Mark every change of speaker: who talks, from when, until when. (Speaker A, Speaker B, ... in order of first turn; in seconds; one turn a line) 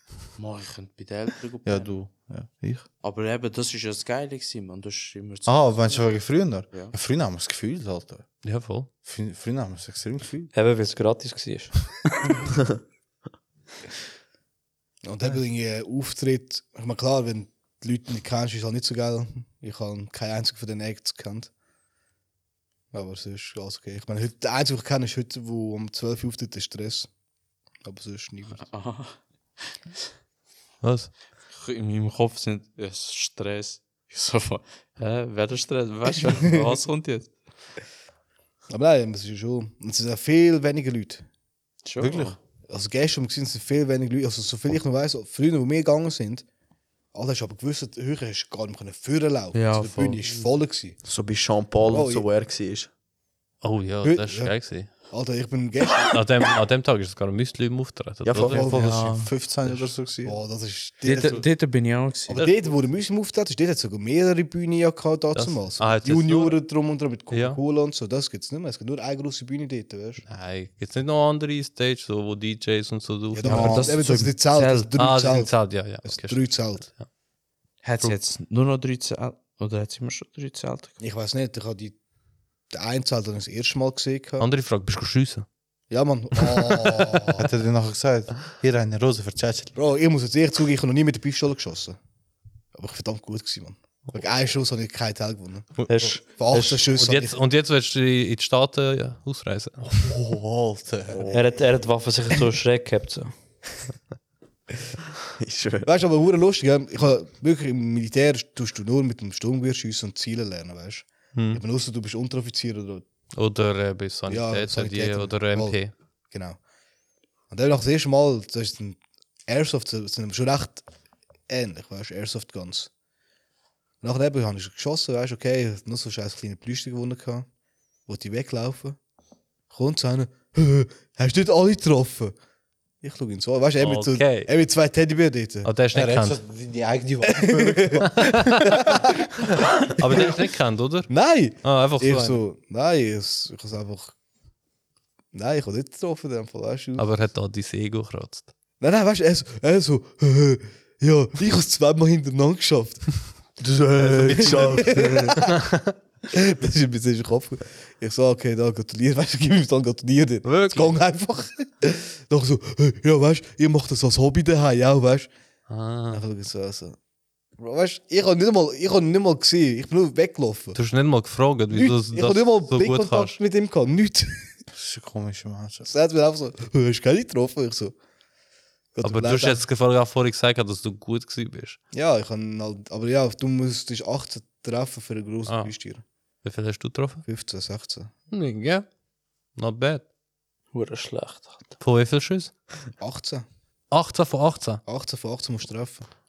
Speaker A: 0.4-1.9
Speaker B: 1.6-2.9
Speaker A: 3.0-6.1
Speaker B: 5.5-8.2
Speaker C: 8.4-8.9
Speaker B: 9.1-10.5
Speaker D: 10.5-12.4
Speaker E: 15.0-21.5
Speaker E: 22.9-27.1
Speaker E: 27.8-28.7
Speaker A: 28.6-29.2
Speaker C: 30.8-31.1
Speaker A: 31.5-37.3
Speaker E: 38.7-41.3
Speaker A: 41.9-42.4
Speaker B: 42.0-42.4
Speaker E: 42.7-46.5
Speaker E: 47.1-51.0
Speaker A: 49.5-50.2
Speaker F: 51.0-52.9
Speaker E: 51.8-52.3
Speaker C: 53.6-54.9
Speaker E: 54.0-54.5
Speaker E: 55.1-56.2
Speaker C: 56.0-58.5
Speaker F: 58.2-58.8
Speaker E: 58.5-59.0
Speaker B: 58.5-60.4
Speaker A: 58.8-59.2
Speaker E: 60.2-61.5
Speaker A: 61.0-62.5
Speaker E: 62.3-70.2
Speaker C: 62.3-62.7
Speaker C: 65.3-66.6
Speaker C: 67.3-67.6
Speaker C: 70.3-73.9
Speaker E: 73.3-76.9
Speaker A: 73.5-74.9
Speaker B: 73.5-74.0
Speaker C: 75.0-77.1
Speaker A: 77.8-81.0
Speaker E: 81.0-82.0
Speaker E: 82.7-84.5
Speaker C: 84.4-85.5
Speaker E: 85.9-87.5
Speaker B: 87.3-89.8
Speaker E: 89.8-92.0
Speaker E: 92.7-97.4
Speaker D: 95.9-96.8
Speaker C: 96.8-99.8
Speaker B: 99.8-101.3
Speaker F: 101.1-101.6
Speaker D: 101.3-103.3
Speaker F: 105.4-105.9
Speaker E: 105.8-113.0
Speaker C: 111.3-111.6
Speaker C: 113.3-115.9
Speaker E: 114.3-115.8
Speaker E: 116.3-116.6
Speaker E: 117.5-120.8
Speaker E: 121.5-122.9
Speaker E: 124.0-127.5
Speaker E: 128.1-129.0
Speaker E: 129.7-132.3
Speaker E: 133.0-135.7
Speaker C: 133.8-134.5
Speaker C: 135.6-136.4
Speaker B: 135.9-138.4
Speaker E: 137.3-139.1
Speaker C: 138.0-138.8
Speaker C: 140.0-142.4
Speaker E: 141.1-144.1
Speaker E: 145.3-147.1
Speaker C: 147.0-148.5
Speaker E: 148.8-153.2
Speaker F: 153.6-155.4
Speaker E: 154.0-155.5
Speaker C: 154.0-155.8
Speaker E: 156.3-165.3
Speaker C: 160.4-161.0
Speaker C: 165.7-166.2
Speaker E: 166.1-167.0
Speaker E: 167.6-170.8
Speaker C: 170.8-173.4
Speaker E: 171.7-174.5
Speaker B: 174.7-175.9
Speaker E: 175.8-177.9
Speaker E: 178.9-179.6
Speaker C: 179.0-181.8
Speaker E: 181.9-186.0
Speaker C: 185.5-185.7
Speaker C: 186.4-187.2
Speaker E: 187.3-188.1
Speaker C: 188.3-188.9
Speaker C: 189.6-190.1
Speaker D: 190.7-191.7
Speaker C: 191.8-192.5
Speaker E: 193.0-193.4
Speaker C: 193.9-194.8
Speaker E: 194.9-196.1